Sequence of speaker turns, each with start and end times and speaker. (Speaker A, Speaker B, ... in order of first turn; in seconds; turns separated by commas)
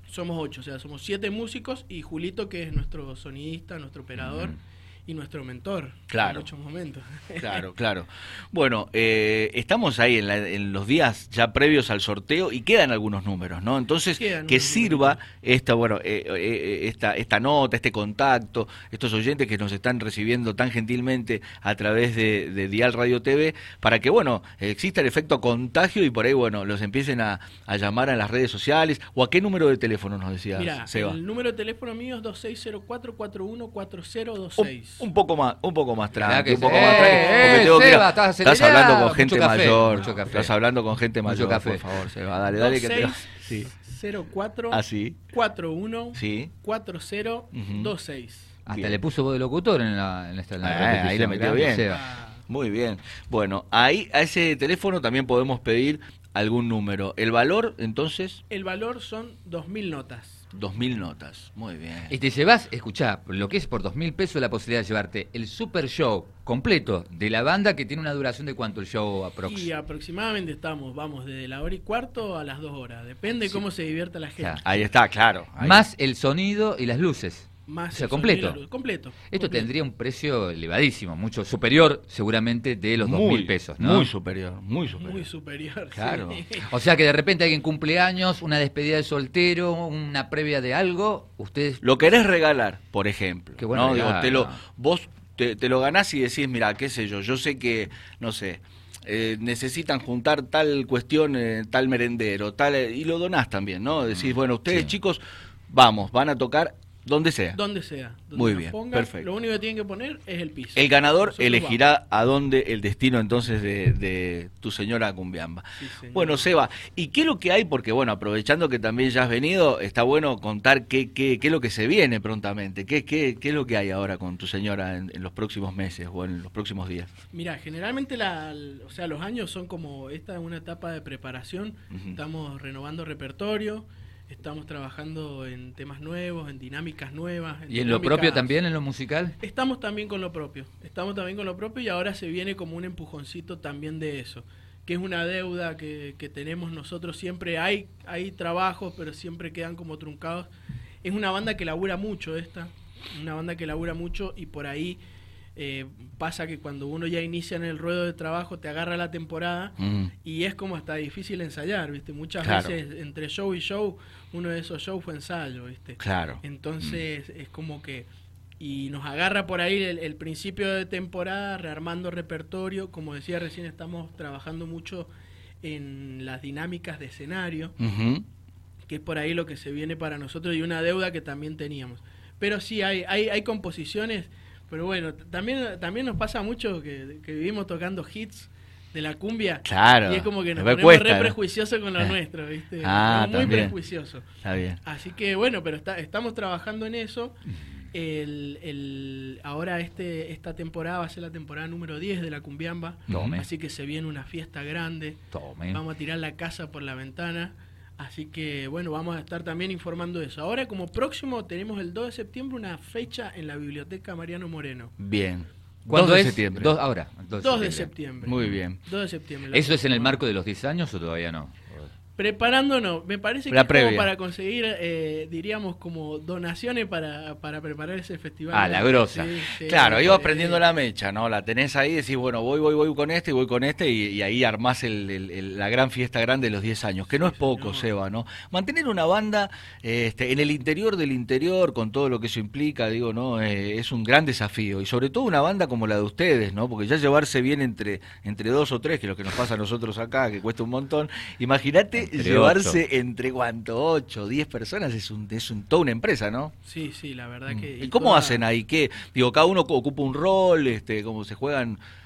Speaker A: 0.1-7.7, Speaker B: 4.2-4.5, Speaker C: 6.1-6.5, Speaker C: 7.4-31.2, Speaker A: 14.2-15.2, Speaker A: 30.6-35.1, Speaker C: 34.6-43.7, Speaker B: 36.2-40.5, Speaker A: 36.6-37.8, Speaker B: 41.3-42.1, Speaker A: 42.6-48.6, Speaker C: 44.7-45.2, Speaker C: 46.2-46.5, Speaker C: 47.5-47.9, Speaker B: 48.7-52.0, Speaker C: 48.7-49.0, Speaker C: 50.6-51.9, Speaker A: 51.8-52.4, Speaker C: 52.5-58.4, Speaker A: 58.5-60.5, Speaker C: 60.5-62.1, Speaker B: 62.1-69.7, Speaker A: 69.4-74.8, Speaker B: 74.4-74.6, Speaker C: 74.7-75.8, Speaker B: 75.6-78.6, Speaker A: 77.7-79.7, Speaker B: 79.3-84.1, Speaker C: 83.0-85.2, Speaker A: 85.0-86.7, Speaker C: 86.0-86.4, Speaker B: 86.6-91.8, Speaker C: 91.8-107.6, Speaker B: 93.6-94.6, Speaker B: 104.1-105.0, Speaker A: 107.5-111.8, Speaker C: 108.3-109.3, Speaker C: 110.8-127.1, Speaker A: 115.8-116.5, Speaker A: 127.3-138.5, Speaker C: 131.9-132.2, Speaker B: 137.7-139.4, Speaker A: 139.4-150.5, Speaker A: 151.0-155.0, Speaker A: 155.6-168.1, Speaker C: 159.8-160.1, Speaker C: 162.4-162.8, Speaker C: 166.0-166.4, Speaker A: 168.6-175.1, Speaker A: 175.6-177.8, Speaker C: 177.8-178.2, Speaker A: 178.9-194.3, Speaker C: 189.7-191.3, Speaker C: 192.8-193.8, Speaker C: 194.4-194.8, Speaker A: 194.8-214.9, Speaker B: 203.1-203.4, Speaker C: 203.1-203.4, Speaker B: 205.3-205.8, Speaker C: 215.0-216.7, Speaker B: 215.8-218.6, Speaker A: 217.4-220.2, Speaker C: 218.2-218.8, Speaker B: 219.5-221.9, Speaker A: 222.2-230.6, Speaker C: 223.5-224.1, Speaker B: 228.5-229.3, Speaker C: 229.6-256.5, Speaker A: 237.1-237.9, Speaker B: 252.0-252.8, Speaker A: 256.6-258.4, Speaker C: 257.5-261.8